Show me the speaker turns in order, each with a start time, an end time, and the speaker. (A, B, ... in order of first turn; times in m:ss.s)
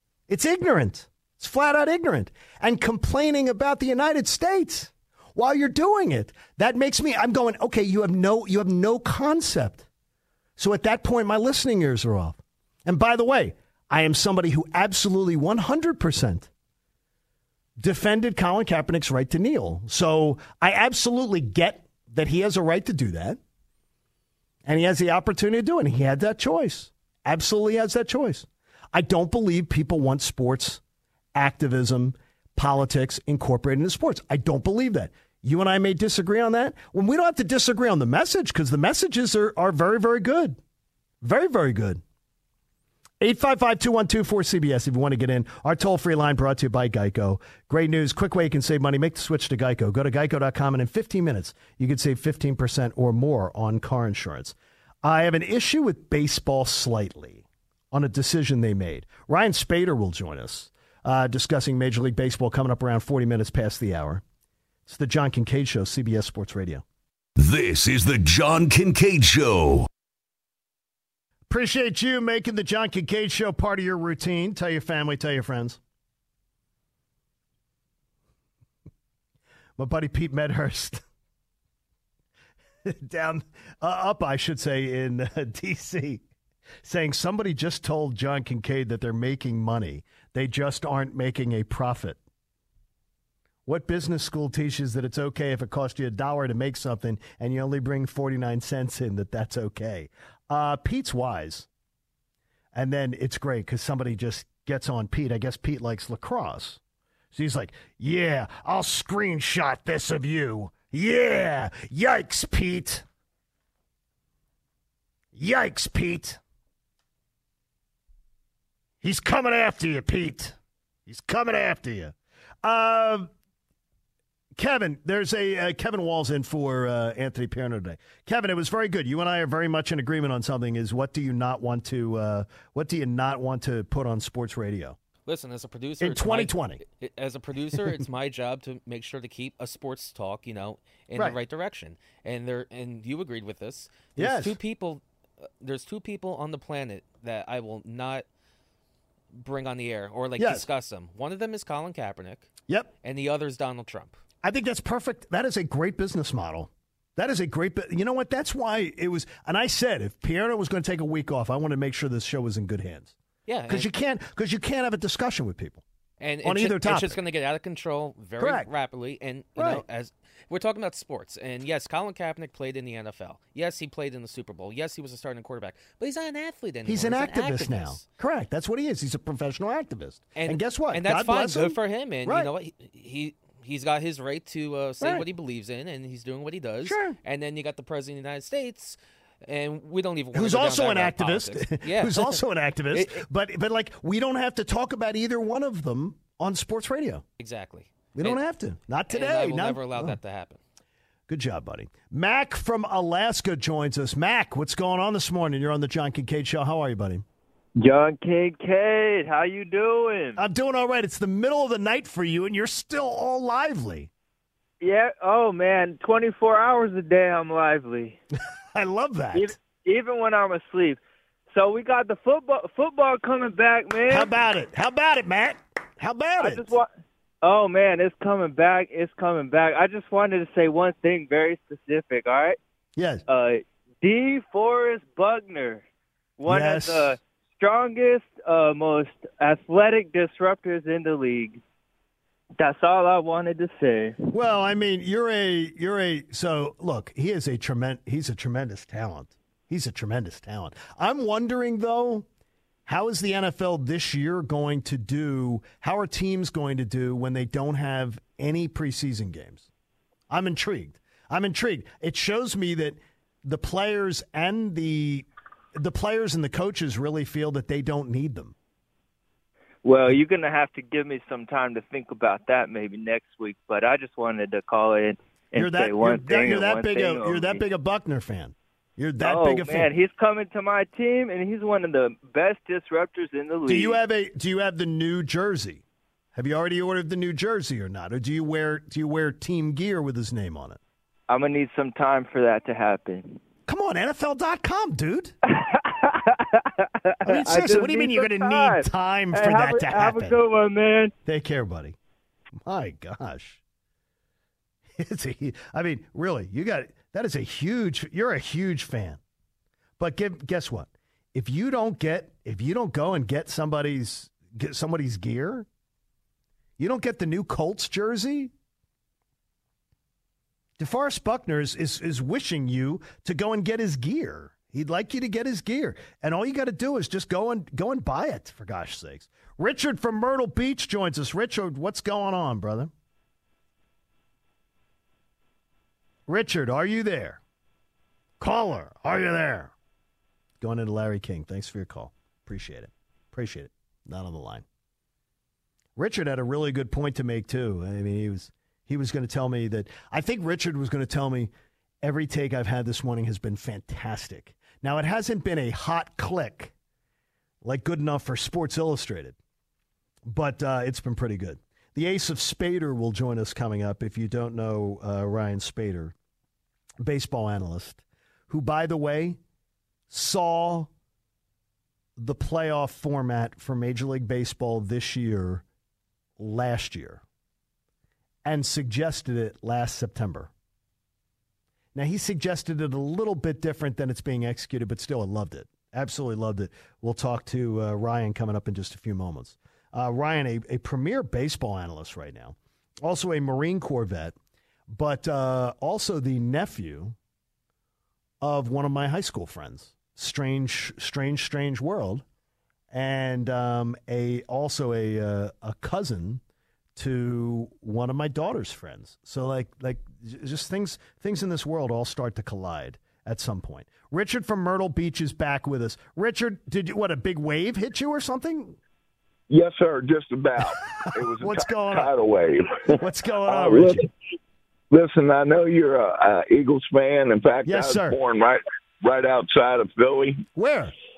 0:00.3-0:09.8 A
0:10.6-0:16.5 A
0:17.8-0:23.4 A
0:24.6-0:30.8 A
0:31.3-0:40.6 A
0:41.2-0:42.0 A
0:43.2-1:04.2 A
1:04.8-1:06.8 A
1:07.4-1:09.9 B
1:11.5-1:15.8 A
1:19.8-1:21.0 A
1:22.8-1:26.2 A
1:26.8-1:32.2 A
1:33.6-1:41.7 A
1:42.7-1:46.8 A
1:47.3-1:53.0 A
1:55.3-1:56.4 A
1:59.0-2:03.3 A
2:04.6-2:15.0 A
2:15.2-2:28.2 C
2:16.0-2:16.8 A
2:24.2-2:24.6 A
2:29.4-2:32.5 C
2:30.4-2:30.6 A
2:33.0-2:34.2 C
2:34.4-2:43.2 A
2:43.4-2:43.9 C
2:43.7-2:45.8 A
2:46.2-2:58.0 C
2:46.4-2:47.2 A
2:48.4-2:48.7 A
2:49.6-2:49.8 A
2:56.8-3:02.5 A
3:00.3-3:13.2 C
3:05.0-3:05.2 A
3:06.8-3:07.2 A
3:10.3-3:17.2 A
3:17.4-3:18.4 C
3:18.1-3:20.2 A
3:19.1-3:20.6 C
3:21.3-3:27.2 A
3:27.8-3:30.4 D
3:30.4-3:34.1 A
3:34.8-3:38.2 D
3:38.7-3:39.6 A
3:39.3-3:41.0 D
3:41.5-3:44.3 D
3:44.1-3:46.8 A
3:46.4-3:46.9 D
3:47.4-3:52.6 D
3:53.0-3:53.2 A
3:53.3-3:55.8 D
3:56.4-4:01.6 D
3:56.5-3:57.2 A
4:02.6-4:04.3 D
4:04.3-4:12.3 A
4:12.9-4:19.7 A
4:20.3-4:28.5 A
4:29.8-4:37.6 D
4:35.5-4:39.9 A
4:39.2-4:44.0 D
4:43.6-4:45.8 A
4:46.3-4:50.8 A
4:51.3-4:53.4 D
4:53.7-4:55.3 A
4:55.5-5:01.1 D
4:57.2-5:00.4 A
5:01.2-5:02.0 A
5:02.6-5:03.6 A
5:05.0-5:09.2 A
5:10.0-5:15.7 A
5:16.8-5:18.5 A
5:20.8-5:32.9 A
5:36.3-5:37.4 A
5:38.4-5:39.7 A
5:40.6-5:44.6 A
5:46.0-5:51.5 A
5:52.0-5:56.7 A
5:57.6-5:59.4 A
6:00.2-6:06.1 A
6:07.0-6:09.4 A
6:10.1-6:10.9 A
6:12.2-6:15.6 A
6:16.4-6:17.2 A
6:18.4-6:20.5 A
6:21.9-6:34.4 A
6:34.9-6:37.2 A
6:38.4-6:42.2 A
6:42.9-6:46.4 A
6:47.0-6:58.8 A
6:59.5-7:04.1 E
7:01.4-7:02.1 A
7:02.9-7:04.0 A
7:04.9-7:10.4 E
7:07.6-7:08.2 A
7:10.5-7:10.9 A